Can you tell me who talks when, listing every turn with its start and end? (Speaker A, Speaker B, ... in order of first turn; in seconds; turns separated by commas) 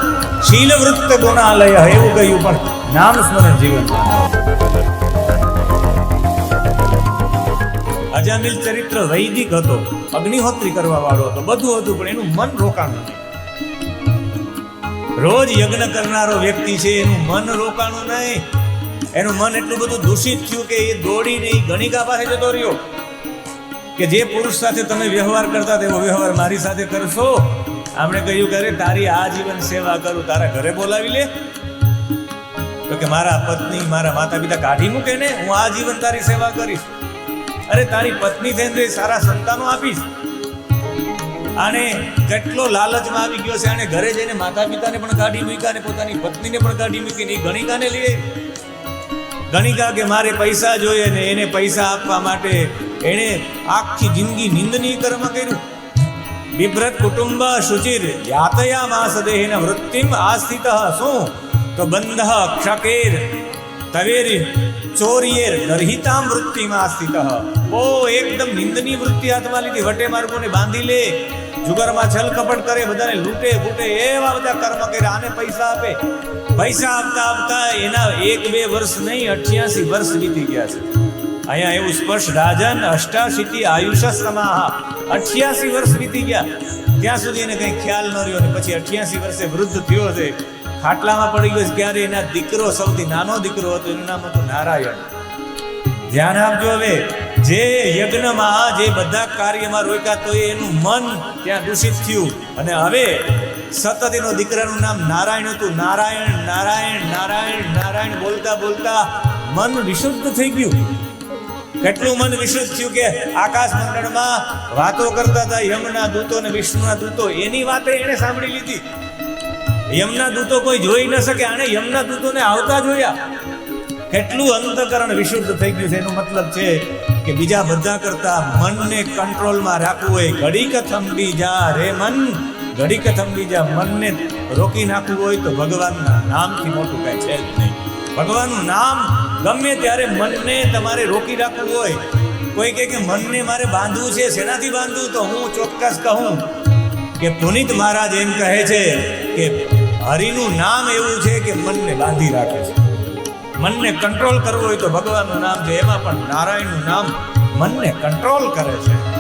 Speaker A: 0.4-4.4, Speaker A: 8.1-13.2, Speaker A: 15.2-18.5, Speaker A: 19.1-22.8, Speaker A: 24.0-31.3, Speaker A: 32.9-36.9, Speaker A: 37.7-40.1, Speaker A: 41.6-48.2, Speaker A: 49.5-55.6, Speaker A: 56.5-63.4, Speaker A: 63.9-76.0, Speaker A: 76.5-80.9, Speaker A: 81.5-95.1, Speaker A: 96.1-110.8, Speaker A: 111.8-118.8, Speaker A: 119.9-123.2, Speaker A: 124.1-146.5, Speaker A: 147.2-152.8, Speaker A: 153.6-159.1